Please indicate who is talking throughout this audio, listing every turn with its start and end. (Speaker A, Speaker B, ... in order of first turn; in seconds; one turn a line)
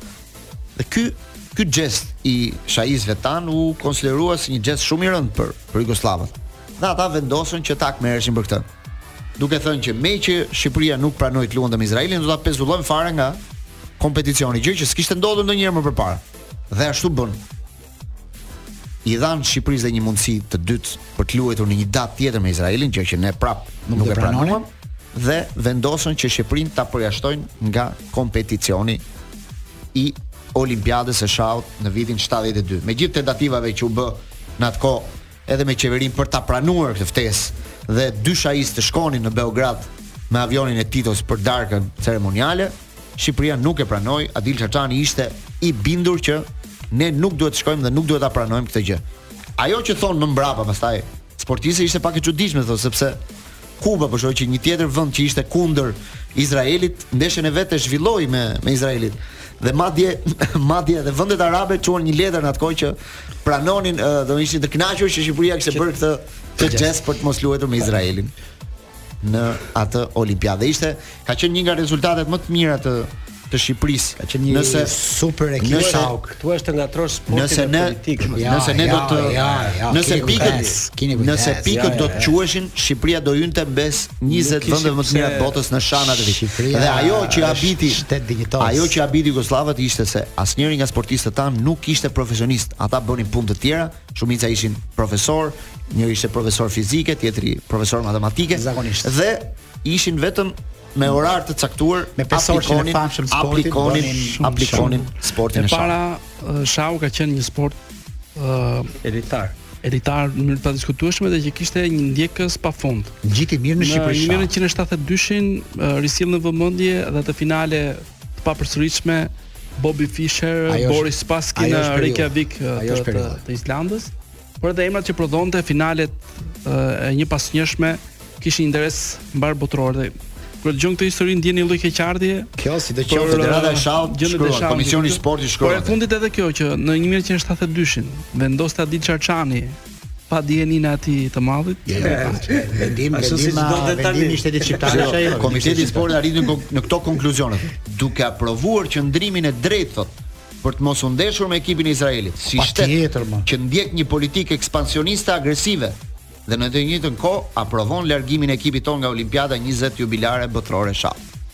Speaker A: 0.8-8.7
Speaker A: 9.4-13.4
Speaker A: 14.0-17.4
Speaker A: 19.0-29.0
Speaker B: 23.9-24.6
Speaker A: 29.9-49.0
Speaker A: 49.6-53.2
Speaker A: 53.8-68.3
Speaker B: 66.6-66.8
Speaker A: 69.2-75.0
Speaker B: 74.2-76.4
Speaker A: 75.6-76.2
Speaker C: 75.7-80.8
Speaker A: 77.3-88.1
Speaker B: 78.3-82.2
Speaker C: 81.7-82.3
Speaker C: 84.3-85.6
Speaker B: 86.0-89.0
Speaker A: 88.6-106.0
Speaker B: 98.5-99.1
Speaker B: 102.2-104.9
Speaker D: 104.4-107.8
Speaker D: 108.4-108.9
Speaker C: 109.0-109.6
Speaker D: 109.8-113.2
Speaker B: 113.2-114.5
Speaker D: 113.8-132.5
Speaker B: 120.7-123.4
Speaker B: 132.6-133.4
Speaker D: 133.1-139.8
Speaker A: 133.1-136.0
Speaker D: 140.3-142.5
Speaker B: 141.9-146.2
Speaker C: 142.0-145.4
Speaker A: 144.9-161.2
Speaker B: 152.6-153.5